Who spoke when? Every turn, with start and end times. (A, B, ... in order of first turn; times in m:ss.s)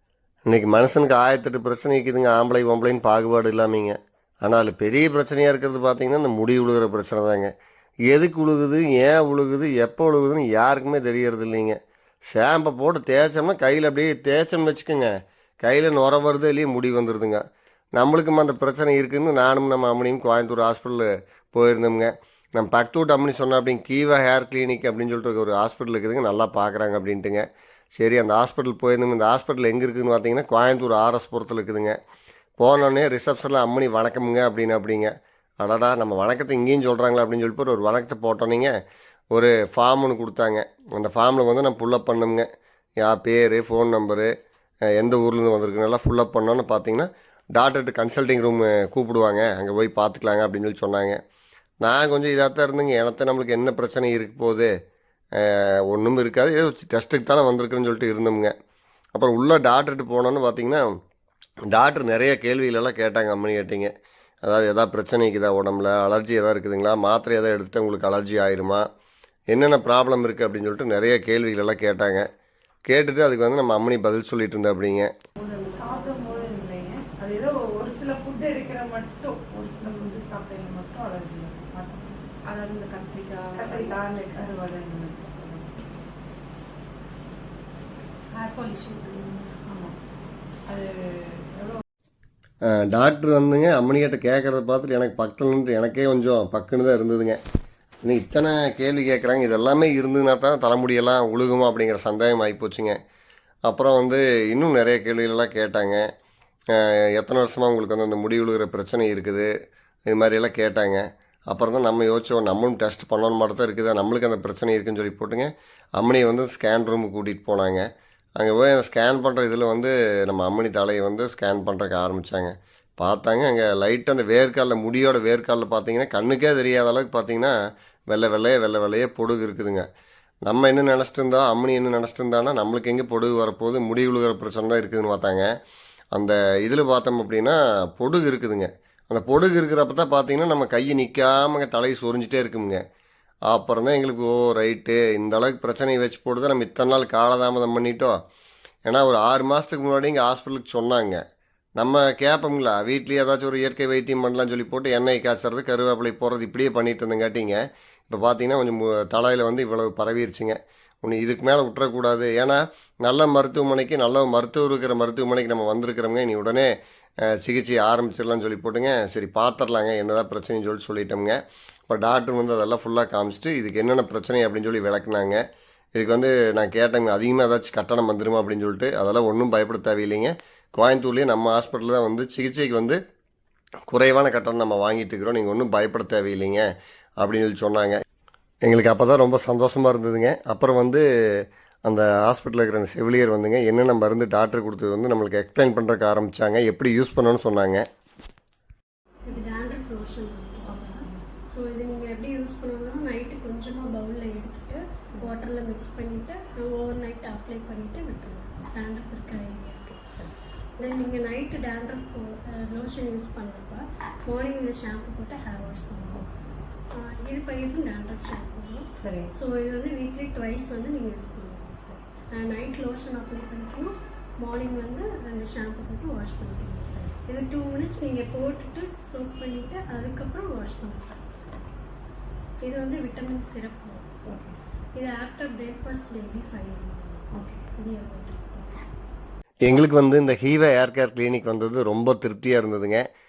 0:00.5-0:07.5 A
0:08.1-0:11.8 A
0:12.3-0:15.1 A
0:15.6-0:17.4 A
0:18.0-0:32.0 A
0:32.6-0:38.7 A
0:39.3-0:42.5 A
0:43.0-0:44.3 A
0:45.0-0:51.2 A
0:51.8-0:54.7 A
0:55.4-0:58.5 A
0:59.2-1:00.9 A
1:01.7-1:03.9 A
1:04.4-1:08.9 A
1:09.5-1:12.3 A
1:12.9-1:15.1 A
1:15.4-1:16.5 B
1:15.7-1:22.2 C
1:22.4-1:23.9 B
1:23.5-1:25.9 C
1:28.3-1:29.5 B
1:29.7-1:30.0 C
1:30.7-1:31.8 C
1:32.7-1:37.4 A
1:38.0-1:43.0 A
1:43.7-1:46.1 A
1:46.7-1:49.5 A
1:50.1-1:57.9 A
1:58.4-2:07.5 A
2:08.1-2:09.9 A
2:10.5-2:15.5 A
2:16.1-2:22.8 A
2:23.5-2:28.2 A
2:28.9-2:31.2 A
2:31.8-2:46.7 A
2:47.3-2:51.4 A
2:51.9-2:55.4 A
2:56.0-3:03.0 A
3:03.9-3:06.7 A
3:07.2-3:08.0 A
3:08.6-3:17.8 A
3:19.3-3:30.1 D
3:20.6-3:21.2 C
3:30.8-3:36.3 D
3:36.9-3:51.5 D
3:39.0-3:39.3 C
3:52.6-3:54.1 D
3:54.3-3:54.6 C
3:55.0-3:58.8 D
3:57.3-3:57.7 C
3:59.6-4:03.1 A